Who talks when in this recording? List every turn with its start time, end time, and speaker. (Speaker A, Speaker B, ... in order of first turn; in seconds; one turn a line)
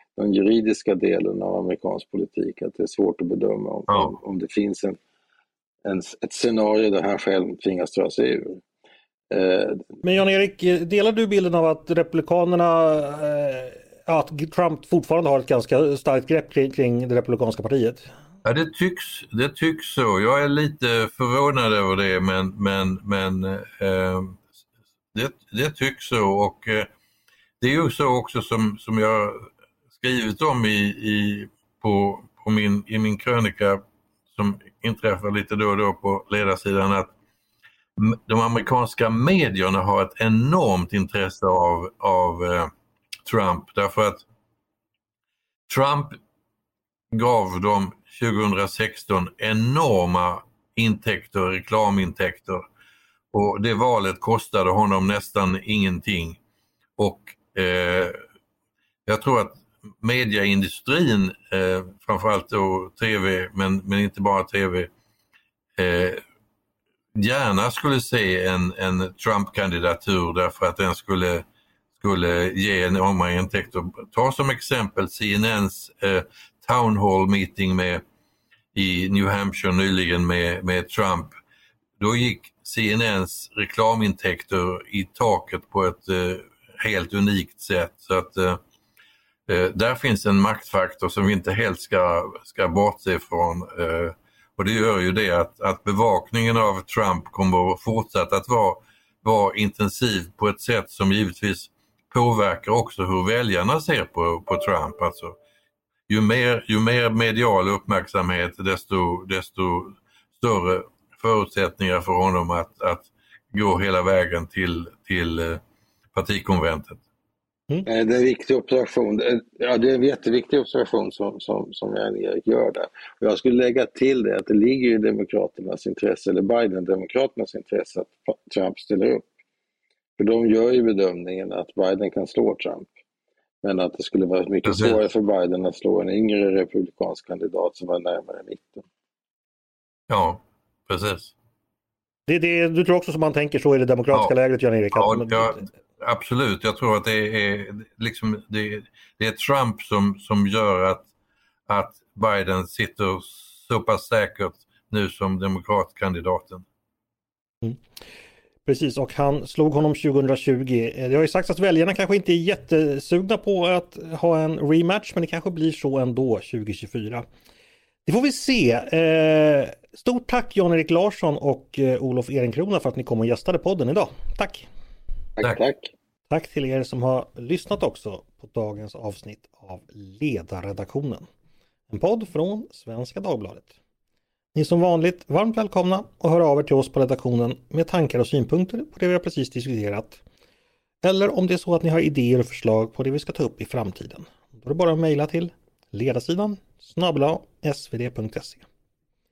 Speaker A: 0.2-5.0
Speaker B: 3.9-4.1
Speaker A: 5.8-8.6
Speaker A: 9.3-9.9
Speaker C: 10.0-18.1
Speaker B: 18.4-24.4
Speaker B: 25.1-26.9
Speaker B: 27.6-33.8
Speaker B: 34.3-37.1
Speaker B: 38.0-42.7
Speaker B: 43.2-44.2
Speaker B: 45.7-46.1
Speaker B: 47.1-52.6
Speaker B: 53.3-56.4
Speaker B: 57.0-58.2
Speaker B: 59.0-64.9
Speaker B: 65.8-66.2
Speaker B: 67.1-71.5
Speaker B: 72.0-78.0
Speaker B: 78.7-81.3
Speaker B: 82.0-88.6
Speaker B: 89.5-105.4
Speaker B: 106.1-115.6
Speaker B: 116.1-117.0
Speaker A: 117.8-129.3
Speaker A: 130.2-132.9
Speaker A: 133.6-138.8
Speaker B: 134.6-135.0
Speaker B: 140.1-141.3
Speaker C: 142.3-145.6
Speaker B: 144.9-151.1
Speaker B: 151.7-156.6
Speaker C: 158.7-167.2
Speaker C: 168.1-174.7
Speaker A: 175.4-175.9
Speaker C: 176.3-181.2
Speaker C: 181.9-183.7
Speaker C: 184.5-190.2
Speaker C: 191.0-198.6